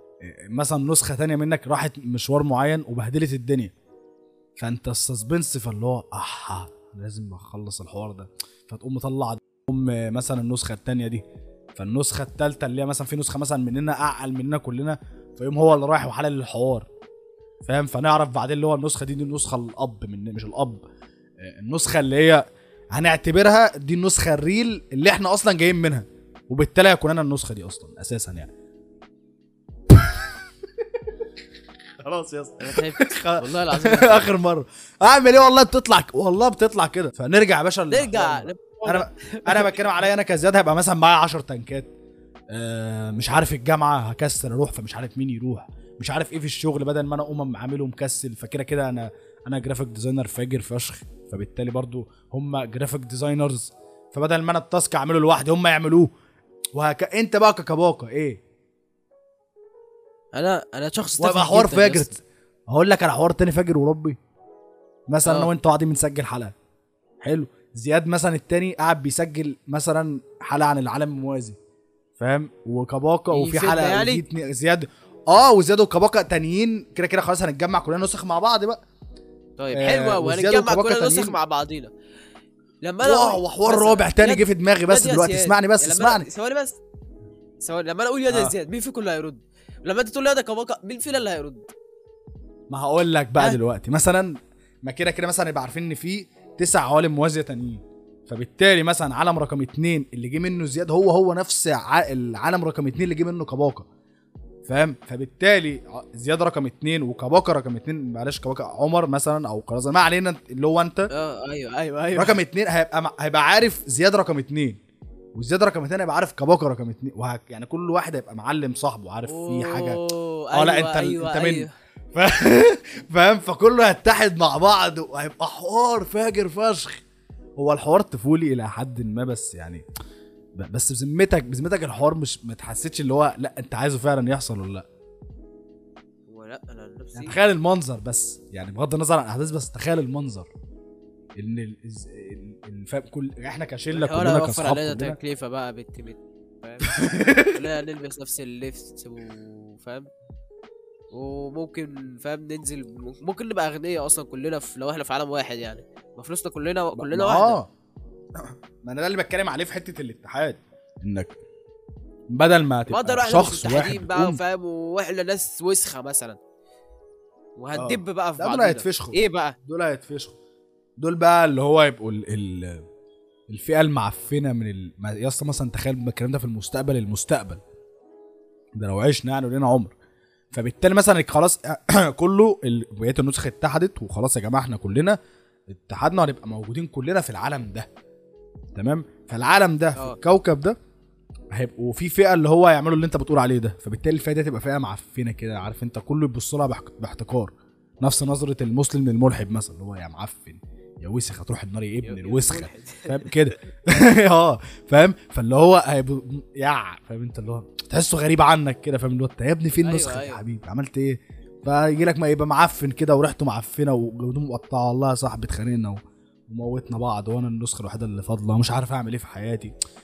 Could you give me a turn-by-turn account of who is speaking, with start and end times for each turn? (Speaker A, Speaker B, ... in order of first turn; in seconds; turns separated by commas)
Speaker A: 0.2-3.7, Speaker A: 4.6-11.2, Speaker A: 11.7-16.9, Speaker A: 17.6-20.8, Speaker A: 21.4-28.5, Speaker A: 29.9-30.4, Speaker A: 32.0-41.9, Speaker B: 32.6-34.3, Speaker B: 37.9-39.9, Speaker A: 42.5-56.1, Speaker A: 56.7-58.4, Speaker B: 60.3-62.1, Speaker A: 61.2-62.1, Speaker A: 62.7-64.2, Speaker A: 65.1-66.5, Speaker B: 65.2-65.5, Speaker A: 67.2-71.6, Speaker A: 72.2-78.8, Speaker B: 73.3-74.2, Speaker B: 79.6-81.9, Speaker A: 79.7-81.3, Speaker B: 82.8-86.8, Speaker A: 83.0-86.2, Speaker B: 87.6-91.7, Speaker A: 92.7-103.8, Speaker A: 104.6-111.1, Speaker B: 111.1-112.4, Speaker A: 112.2-114.8, Speaker A: 115.3-120.0, Speaker B: 119.2-121.7, Speaker A: 120.5-127.0, Speaker A: 127.6-129.8, Speaker A: 130.6-134.9, Speaker B: 136.3-137.3, Speaker A: 137.1-140.5, Speaker A: 141.4-145.2, Speaker B: 143.9-150.1, Speaker A: 146.9-147.6, Speaker B: 151.1-157.6, Speaker A: 156.9-157.7, Speaker A: 158.4-161.3, Speaker A: 162.3-164.4, Speaker B: 162.9-166.4, Speaker B: 167.6-169.6, Speaker A: 167.8-170.3, Speaker A: 171.0-172.8, Speaker A: 173.5-177.6, Speaker A: 178.8-179.9, Speaker A: 180.5-185.2, Speaker A: 185.7-187.9, Speaker A: 188.7-190.8, Speaker A: 191.5-219.7, Speaker B: 202.0-203.5, Speaker B: 209.8-210.4